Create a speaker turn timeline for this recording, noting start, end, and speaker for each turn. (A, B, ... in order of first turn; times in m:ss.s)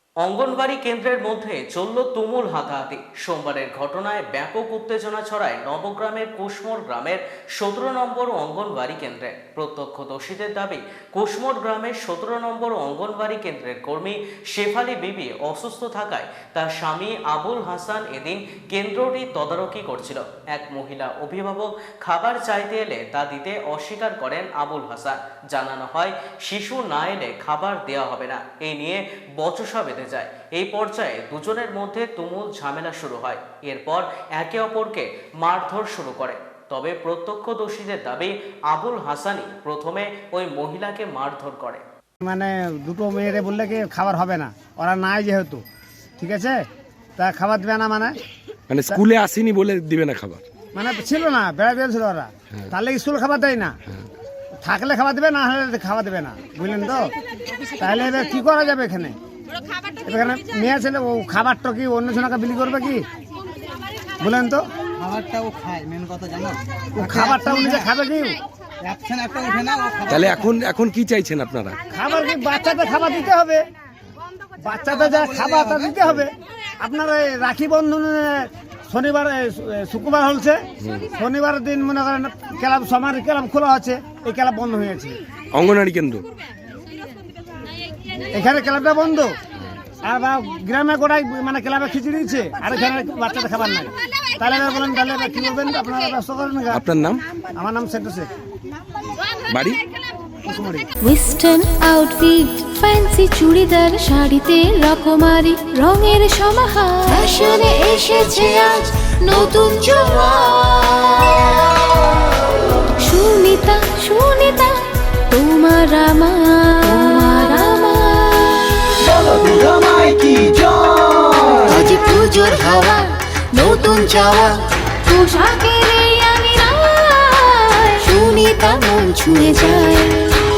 0:00.2-0:41.8 A
0:42.2-0:45.6 B
0:46.2-0:46.6 B
0:47.2-0:48.1 B
0:48.7-0:50.4 C
0:50.7-0:53.7 B
0:54.6-0:57.1 B
0:57.8-0:59.1 B
1:00.0-1:03.0 B
1:04.2-1:04.6 B
1:05.0-1:07.9 D
1:07.0-1:08.4 B
1:08.8-1:10.6 D
1:10.1-1:11.8 C
1:11.9-1:13.6 B
1:14.6-1:20.6 B
1:14.9-1:16.0 D
1:21.1-1:25.2 B
1:25.5-1:26.2 C
1:28.3-1:29.3 B
1:30.0-1:36.8 B
1:36.7-1:37.2 C
1:37.5-1:38.3 B
1:39.5-1:39.8 C
1:40.4-1:40.8 B
1:41.0-1:51.7 E
1:53.0-1:54.8 E
1:55.3-1:58.8 E
1:59.2-2:01.7 D
2:01.7-2:04.0 E
2:05.1-2:10.2 E